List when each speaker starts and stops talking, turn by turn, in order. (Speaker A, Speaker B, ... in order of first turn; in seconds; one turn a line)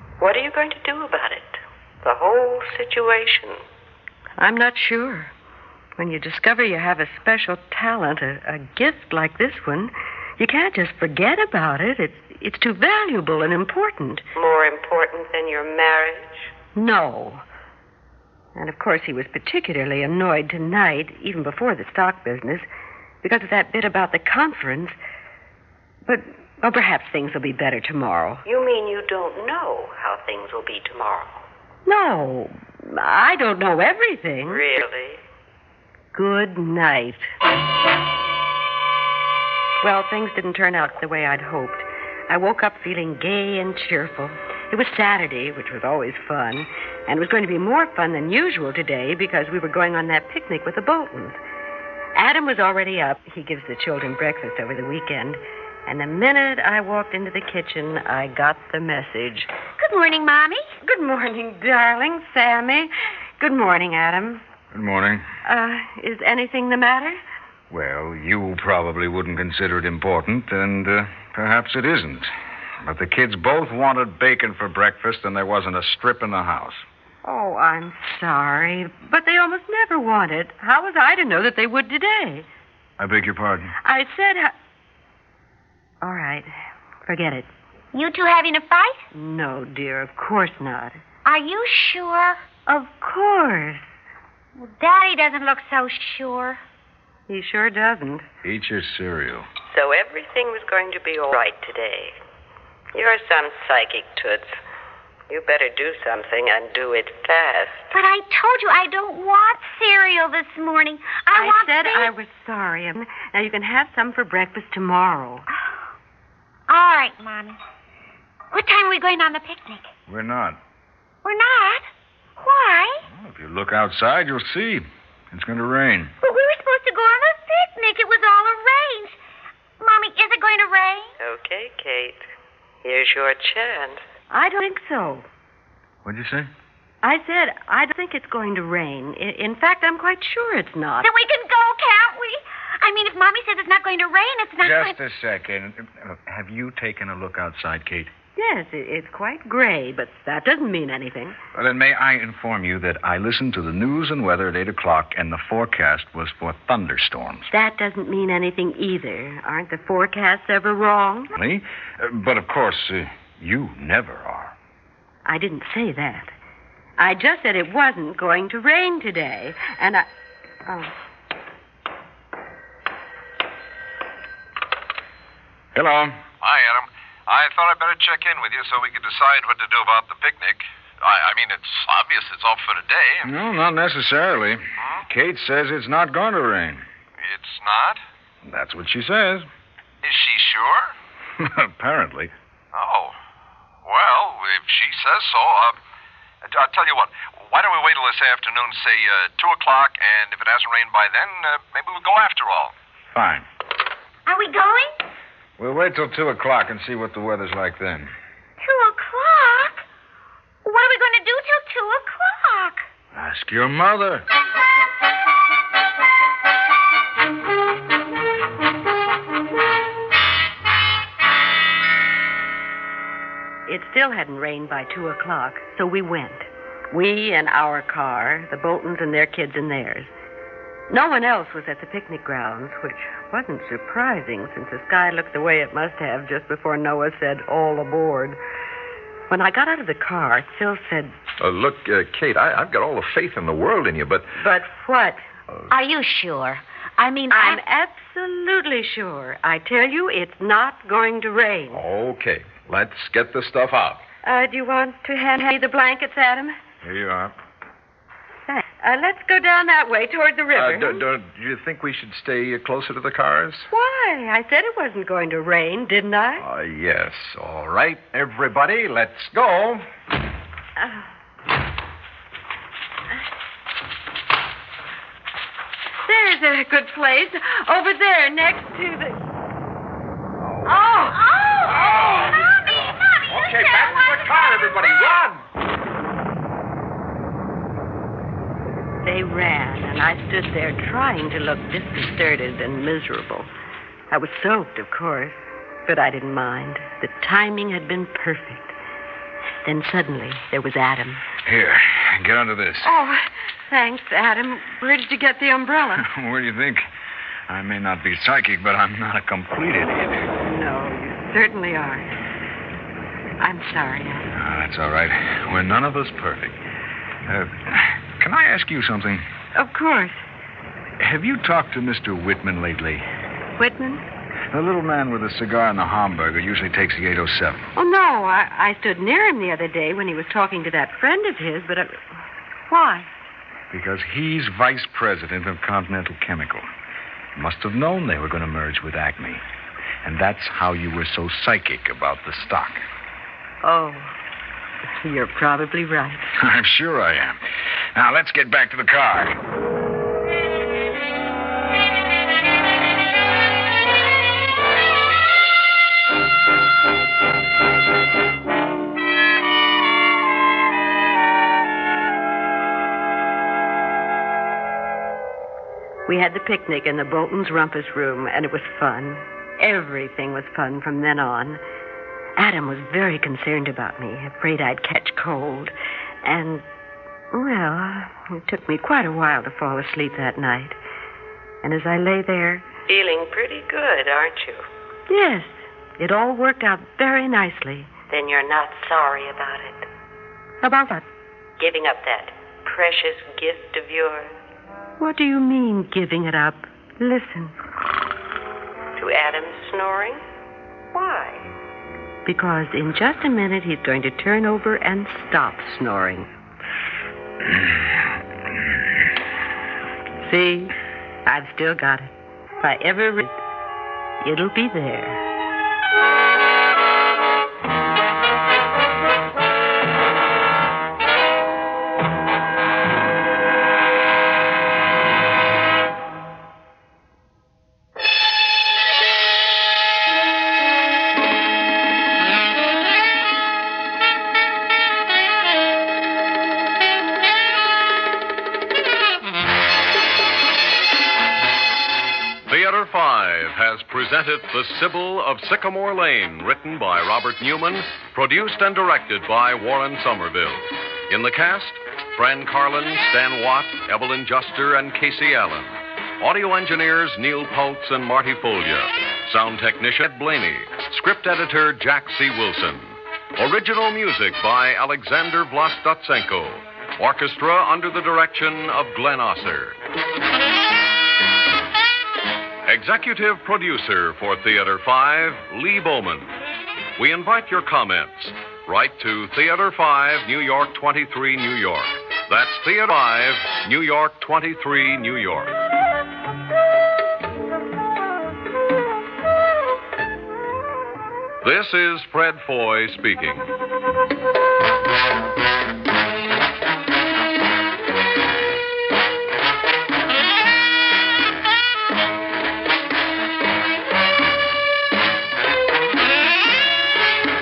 Speaker A: 0.2-3.6
Speaker B: 4.4-5.3
Speaker B: 6.0-14.3
Speaker A: 14.3-16.5
Speaker B: 16.8-17.4
Speaker B: 18.6-22.7
Speaker B: 23.2-25.0
Speaker B: 26.1-28.4
Speaker A: 28.4-31.4
Speaker B: 31.9-34.6
Speaker A: 34.5-35.2
Speaker B: 36.1-37.3
Speaker B: 39.8-51.4
Speaker B: 52.2-59.5
Speaker C: 59.8-60.6
Speaker B: 60.8-64.4
Speaker D: 64.7-65.3
Speaker B: 65.5-67.2
Speaker D: 67.7-76.8
Speaker B: 77.2-82.5
Speaker D: 83.0-83.8
Speaker B: 83.8-84.5
Speaker B: 86.0-86.5
Speaker B: 87.1-87.5
Speaker C: 87.9-89.0
Speaker B: 89.1-91.0
Speaker C: 91.2-92.4
Speaker B: 92.7-93.9
Speaker C: 94.6-96.6
Speaker B: 97.3-98.3
Speaker D: 98.4-99.5
Speaker A: 99.7-102.2
Speaker A: 102.9-104.6
Speaker A: 105.3-107.9
Speaker C: 107.9-112.1
Speaker B: 111.3-115.5
Speaker C: 116.7-117.6
Speaker C: 118.5-119.9
Speaker D: 120.1-120.6
Speaker C: 121.2-121.9
Speaker C: 122.4-123.1
Speaker D: 123.1-126.1
Speaker C: 126.2-129.2
Speaker C: 129.8-131.1
Speaker A: 131.2-132.3
Speaker A: 132.8-134.0
Speaker B: 134.3-135.3
Speaker D: 136.1-136.5
Speaker B: 137.0-141.1
Speaker C: 141.0-145.0
Speaker D: 144.6-148.1
Speaker B: 148.4-151.4
Speaker D: 151.5-157.5
Speaker B: 157.5-161.3
Speaker D: 161.3-164.6
Speaker B: 165.3-166.3
Speaker B: 167.0-170.1
Speaker B: 170.7-170.9
Speaker D: 175.8-176.2
Speaker E: 176.4-183.3
Speaker D: 183.2-186.8
Speaker E: 184.8-185.1
Speaker E: 187.2-188.0
Speaker D: 188.4-189.5
Speaker E: 190.0-190.9
Speaker D: 191.4-192.3
Speaker E: 192.7-193.2
Speaker E: 193.8-195.8
Speaker E: 196.4-202.7
Speaker D: 203.1-203.5
Speaker C: 204.3-205.0
Speaker D: 205.6-208.1
Speaker C: 208.6-209.8
Speaker C: 210.6-212.8
Speaker D: 213.1-214.2
Speaker B: 223.7-230.1
Speaker B: 230.9-238.4
Speaker B: 239.3-241.1
Speaker F: 241.4-244.3
Speaker B: 244.3-245.2
Speaker C: 245.7-247.6
Speaker B: 247.3-251.8
Speaker F: 251.7-254.0
Speaker B: 254.2-256.6
Speaker D: 256.8-257.3
Speaker B: 258.5-261.0
Speaker F: 260.6-263.7
Speaker B: 263.7-266.4
Speaker F: 266.4-269.9
Speaker B: 270.8-271.1
Speaker B: 276.0-279.2
Speaker F: 280.4-280.7
Speaker B: 280.6-281.2
Speaker C: 280.9-285.1
Speaker F: 281.8-282.2
Speaker B: 281.9-282.3
Speaker F: 283.3-285.4
Speaker B: 289.1-293.5
Speaker B: 294.1-298.8
Speaker B: 299.6-301.2
Speaker D: 301.4-302.9
Speaker B: 302.8-306.1
Speaker D: 306.0-306.9
Speaker D: 307.5-310.2
Speaker B: 310.4-312.1
Speaker B: 313.4-314.3
Speaker D: 314.3-316.6
Speaker D: 317.3-319.2
Speaker B: 319.6-320.2
Speaker D: 321.0-323.0
Speaker B: 323.6-324.0
Speaker D: 324.5-327.6
Speaker B: 327.8-332.0
Speaker B: 332.7-333.1
Speaker D: 333.7-336.7
Speaker D: 337.4-339.4
Speaker D: 340.0-342.8
Speaker B: 343.6-344.1
Speaker B: 345.0-346.3
Speaker D: 346.3-347.4
Speaker D: 347.9-349.4
Speaker B: 366.1-371.6
Speaker B: 372.4-375.7
Speaker B: 376.2-376.6
Speaker B: 377.3-380.8
Speaker B: 381.6-382.7
Speaker A: 382.9-384.6
Speaker B: 385.1-387.9
Speaker A: 388.1-389.9
Speaker B: 390.6-391.1
Speaker A: 391.6-394.3
Speaker B: 395.0-397.6
Speaker A: 399.0-400.2
Speaker A: 400.9-401.5
Speaker B: 402.3-406.3
Speaker B: 410.2-410.7
Speaker B: 411.3-413.4
Speaker B: 414.2-415.2
Speaker G: 442.5-469.8
Speaker G: 472.7-476.3
Speaker G: 477.0-485.5
Speaker G: 491.4-493.5